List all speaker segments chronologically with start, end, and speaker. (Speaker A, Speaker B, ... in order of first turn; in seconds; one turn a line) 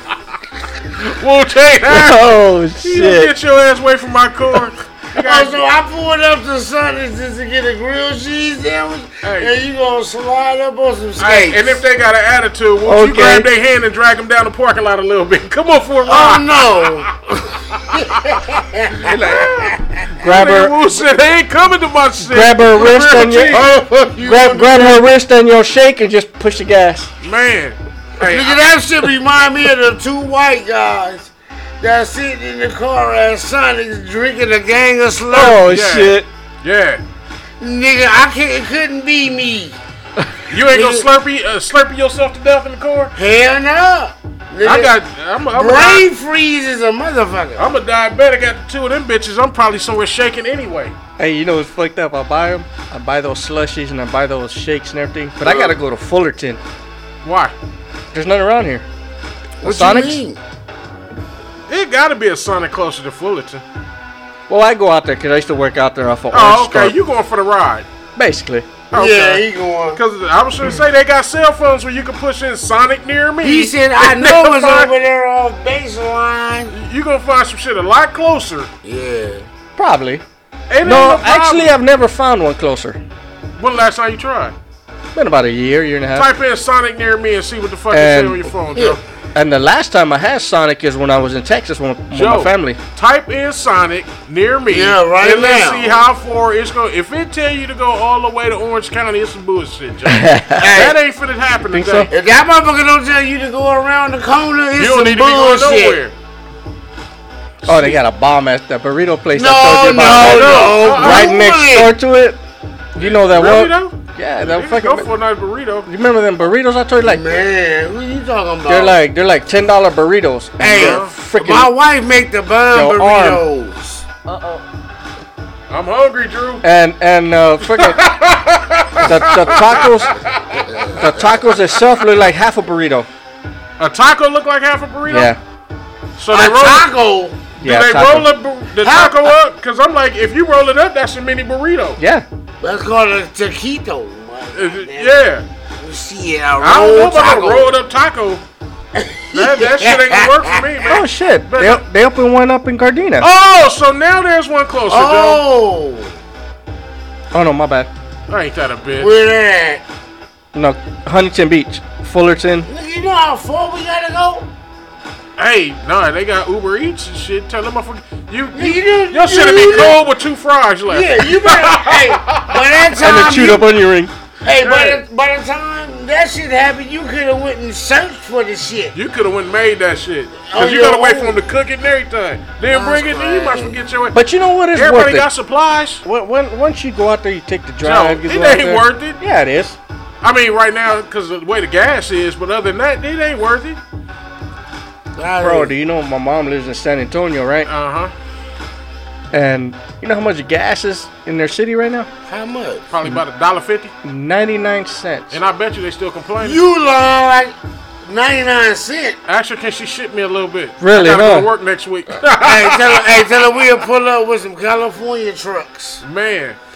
Speaker A: 1.0-5.6
Speaker B: 1.9-3.3
Speaker C: 5.1-11.8
Speaker A: 9.2-9.5
Speaker A: 11.2-16.5
Speaker B: 12.8-13.5
Speaker C: 16.0-20.1
Speaker A: 17.9-23.7
Speaker B: 19.1-19.5
Speaker B: 20.2-20.8
Speaker B: 22.2-27.1
Speaker C: 23.4-25.1
Speaker A: 27.2-28.6
Speaker C: 28.2-35.6
Speaker B: 35.3-36.3
Speaker A: 35.5-37.0
Speaker C: 37.6-39.8
Speaker A: 40.5-43.1
Speaker C: 40.5-41.1
Speaker C: 43.1-44.9
Speaker A: 44.6-46.1
Speaker C: 45.5-47.7
Speaker A: 47.5-50.9
Speaker B: 51.2-56.6
Speaker A: 55.4-55.8
Speaker A: 57.2-57.5
Speaker B: 58.1-58.9
Speaker C: 59.6-60.4
Speaker B: 59.6-60.2
Speaker A: 61.7-63.6
Speaker B: 64.5-67.0
Speaker A: 66.3-67.9
Speaker B: 68.2-68.7
Speaker A: 68.9-74.9
Speaker C: 68.9-70.0
Speaker C: 73.4-76.7
Speaker A: 76.7-78.7
Speaker C: 78.8-79.5
Speaker B: 79.8-80.2
Speaker A: 80.7-81.7
Speaker B: 80.8-83.0
Speaker A: 83.6-84.5
Speaker B: 85.1-86.3
Speaker A: 86.1-89.0
Speaker B: 87.9-88.5
Speaker C: 88.7-89.0
Speaker B: 89.3-92.8
Speaker A: 92.1-102.1
Speaker C: 94.7-96.0
Speaker B: 100.0-100.6
Speaker C: 100.5-101.0
Speaker B: 101.7-102.1
Speaker C: 102.1-106.0
Speaker A: 104.8-106.1
Speaker A: 107.6-108.0
Speaker B: 107.6-112.4
Speaker C: 109.3-111.9
Speaker A: 110.0-111.4
Speaker B: 113.0-115.1
Speaker A: 113.0-115.9
Speaker B: 115.8-117.3
Speaker C: 117.0-119.0
Speaker B: 118.7-121.7
Speaker C: 120.6-124.0
Speaker A: 120.7-121.1
Speaker B: 122.7-123.4
Speaker A: 125.7-126.6
Speaker B: 126.6-128.0
Speaker A: 127.6-130.7
Speaker B: 129.0-130.2
Speaker C: 130.7-131.3
Speaker B: 130.9-133.1
Speaker A: 133.8-135.3
Speaker B: 135.1-135.4
Speaker A: 136.2-136.9
Speaker C: 136.3-137.4
Speaker B: 137.6-138.3
Speaker A: 137.6-142.0
Speaker C: 138.8-139.3
Speaker B: 142.0-142.2
Speaker C: 142.6-145.2
Speaker A: 144.5-145.4
Speaker C: 145.8-147.7
Speaker A: 146.6-148.4
Speaker C: 148.9-150.9
Speaker A: 149.3-151.8
Speaker B: 150.9-153.3
Speaker A: 153.2-155.4
Speaker C: 154.9-156.1
Speaker B: 157.3-157.9
Speaker A: 158.3-159.1
Speaker C: 159.0-159.8
Speaker B: 160.5-162.7
Speaker C: 162.7-164.5
Speaker A: 165.4-172.9
Speaker C: 168.5-170.0
Speaker C: 170.9-173.7
Speaker B: 173.0-174.1
Speaker C: 174.4-179.0
Speaker A: 174.5-175.0
Speaker A: 178.9-184.2
Speaker C: 180.4-181.4
Speaker C: 182.7-183.8
Speaker B: 184.1-185.3
Speaker A: 184.7-186.0
Speaker B: 186.0-189.8
Speaker A: 187.8-189.2
Speaker A: 190.2-193.8
Speaker C: 195.2-195.7
Speaker B: 195.4-197.7
Speaker A: 197.6-198.1
Speaker B: 199.3-202.1
Speaker C: 202.3-202.9
Speaker A: 202.9-203.9
Speaker B: 204.0-205.4
Speaker A: 205.3-206.6
Speaker C: 206.4-207.5
Speaker C: 208.0-209.2
Speaker A: 209.3-213.3
Speaker B: 210.8-211.5
Speaker C: 212.4-216.0
Speaker A: 216.0-216.6